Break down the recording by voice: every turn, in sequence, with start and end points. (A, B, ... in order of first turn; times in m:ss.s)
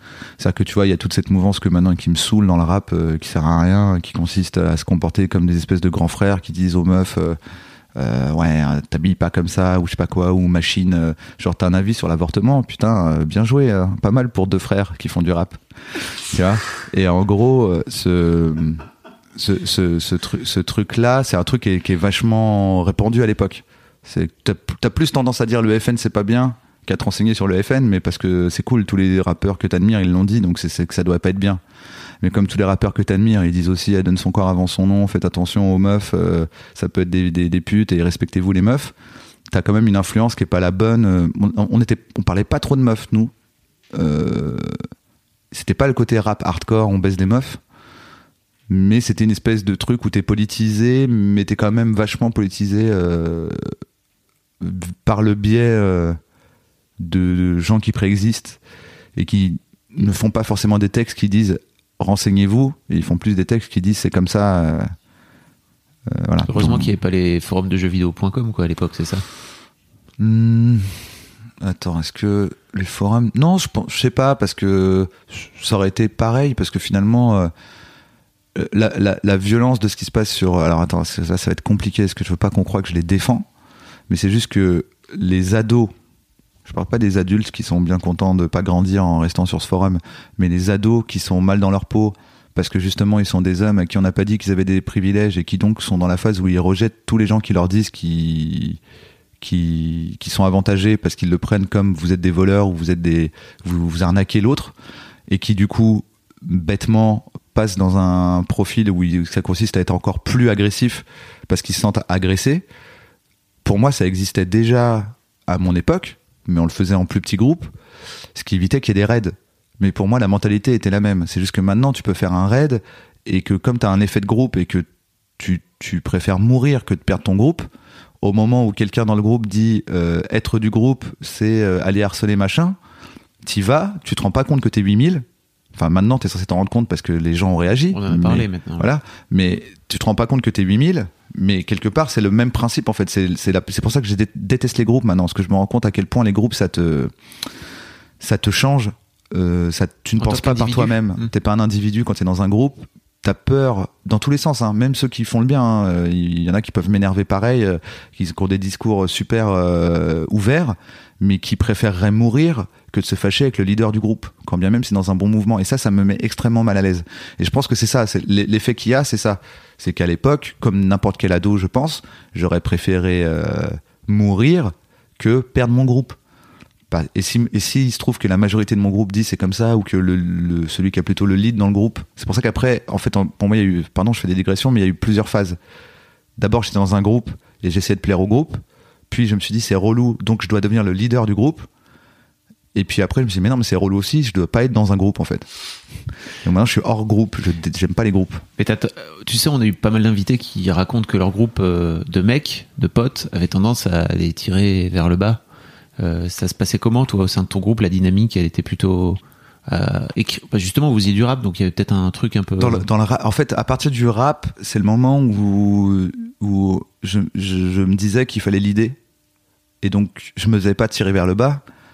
0:00.4-0:07.4 A
0:08.0-0:15.6 A
0:16.3-0:18.8 A
0:19.3-0:31.6 A
0:32.2-0:38.9 A
0:39.5-0:43.3 A
0:43.9-0:44.8 A
0:45.5-0:47.6 A
0:48.7-0:53.6 A
0:54.6-0:56.2 A
0:57.0-0:58.6 A
0:59.2-1:04.9 A
1:06.1-1:06.9 A
1:06.5-1:09.2 B
1:10.2-1:11.1 A
1:11.6-1:17.5 A
1:18.5-1:23.5 A
1:24.1-1:25.9 A
1:26.6-1:38.8 A
1:39.4-1:44.7 A
1:45.3-1:52.6 A
1:53.6-1:57.7 A
1:58.3-2:04.8 A
2:05.4-2:07.7 A
2:08.2-2:12.8 A
2:13.4-2:27.1 A
2:17.9-2:18.9 B
2:28.2-2:56.2 A
2:30.2-2:31.3 B
2:56.9-3:05.6 A
3:06.4-3:11.7 A
3:12.7-3:15.5 A
3:16.4-3:18.4 A
3:18.6-3:25.4 B
3:26.0-3:32.9 B
3:32.6-3:39.0 A
3:39.8-3:41.6 A